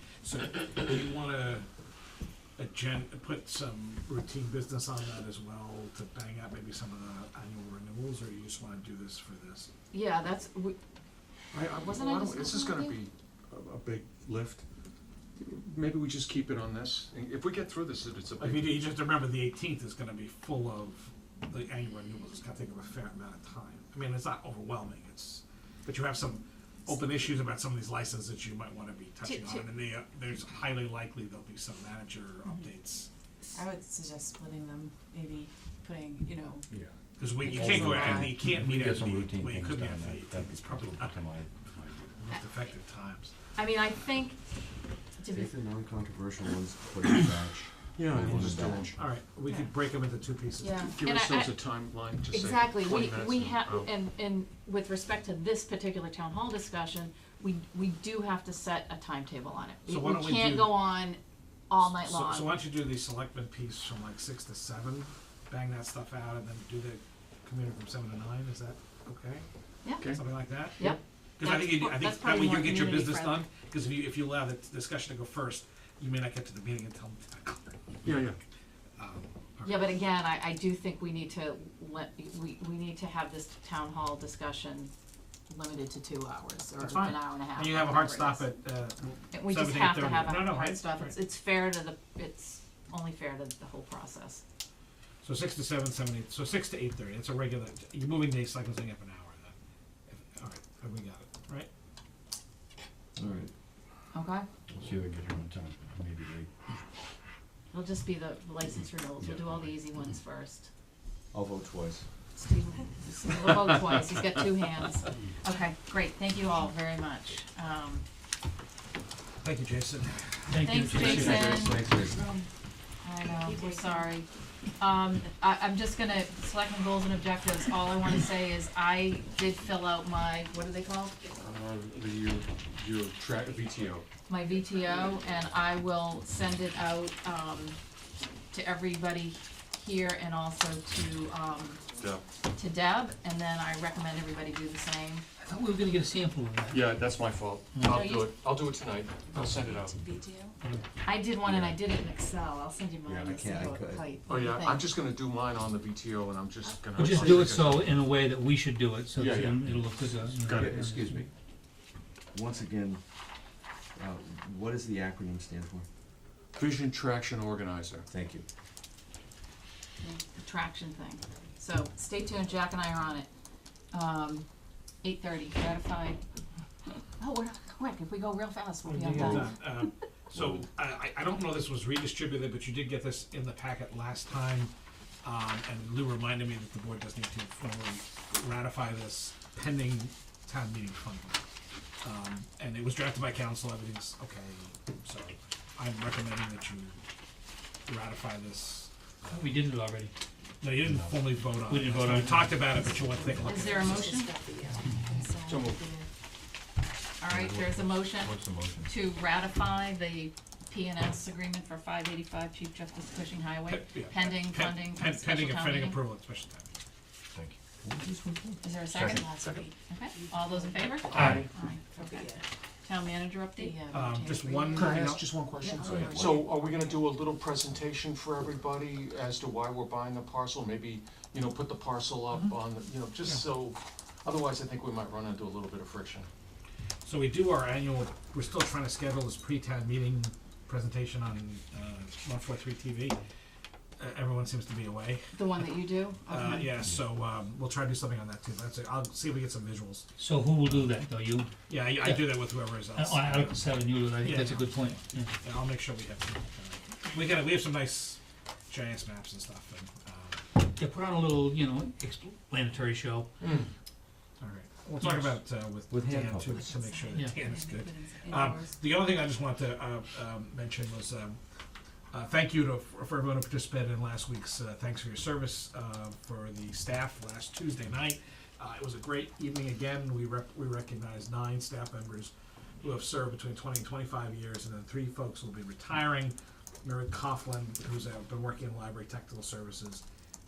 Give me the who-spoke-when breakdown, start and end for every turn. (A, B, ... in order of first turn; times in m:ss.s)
0:00.2-0:01.7 A
0:02.6-0:09.7 A
0:09.9-0:10.8 B
0:11.5-0:14.6 C
0:11.7-0:13.0 B
0:15.4-0:18.8 C
0:18.4-0:33.1 A
0:29.2-0:29.7 B
0:33.5-0:36.7 D
0:37.2-0:41.2 A
0:37.6-0:42.2 E
0:42.2-0:43.3 A
0:43.6-0:44.4 B
0:45.2-0:45.5 B
0:45.3-0:48.9 F
0:48.0-0:49.0 C
0:48.9-0:50.9 A
0:49.5-0:49.7 B
0:50.6-0:51.6 B
0:50.9-0:53.9 C
0:52.3-1:02.6 B
0:59.9-1:00.8 A
1:01.8-1:09.5 A
1:09.8-1:13.4 B
1:10.1-1:17.8 A
1:18.0-1:18.4 C
1:19.0-1:19.8 A
1:19.6-1:24.9 B
1:25.5-1:28.5 B
1:26.8-1:31.2 A
1:29.3-1:34.4 B
1:35.2-1:39.5 A
1:40.1-1:41.7 A
1:43.2-1:43.5 F
1:44.1-1:44.4 B
1:44.8-1:46.5 E
1:47.7-1:50.7 B
1:51.3-1:52.0 F
1:52.4-1:58.0 B
1:59.4-2:00.8 A
2:00.5-2:01.6 G
2:00.6-2:01.8 B
2:00.9-2:02.2 F
2:02.2-2:02.4 D
2:03.0-2:11.2 B
2:03.4-2:04.1 D
2:11.3-2:14.1 C
2:14.3-2:17.8 B
2:18.5-2:21.8 B
2:21.9-2:22.2 C
2:22.5-2:25.2 B
2:25.4-2:27.0 G
2:26.7-2:30.0 C
2:27.7-2:28.1 G
2:29.5-2:30.6 D
2:31.0-2:34.9 B
2:31.5-2:31.7 F
2:33.1-2:34.1 F
2:34.3-2:38.0 C
2:36.9-2:41.1 G
2:39.1-2:40.9 C
2:40.5-2:41.3 F
2:42.3-2:43.0 F
2:44.0-2:45.9 F
2:46.6-2:48.1 C
2:48.1-2:48.4 F
2:50.1-2:53.3 B
2:53.9-2:54.5 B
2:55.0-2:56.2 B
2:57.2-2:59.6 B
2:58.8-3:04.7 A
3:05.2-3:11.4 A
3:12.0-3:17.0 A
3:17.9-3:19.6 A
3:19.3-3:20.1 G
3:20.6-3:24.2 A
3:21.7-3:22.7 G
3:23.4-3:26.1 D
3:23.5-3:24.4 B
3:25.5-3:25.8 C
3:27.2-3:36.0 B
3:27.3-3:28.9 E
3:33.7-3:36.7 A
3:37.8-3:38.6 F
3:38.6-3:42.3 B
3:38.9-3:39.7 C
3:40.2-3:42.4 D
3:41.1-3:41.5 G
3:42.8-3:45.0 B
3:43.6-3:43.9 D
3:43.9-3:45.3 A
3:44.7-3:56.3 C
3:45.6-3:46.1 B
3:45.7-3:46.3 D
3:45.9-3:46.2 A
3:57.0-4:03.2 A
4:04.0-4:05.7 A
4:05.4-4:06.8 B
4:06.3-4:10.1 A
4:10.2-4:15.3 G
4:11.7-4:20.4 A
4:20.8-4:23.3 G
4:23.4-4:23.7 C
4:24.4-4:31.4 A
4:25.0-4:25.4 G
4:25.9-4:26.7 F
4:27.5-4:28.7 D
4:32.1-4:50.0 A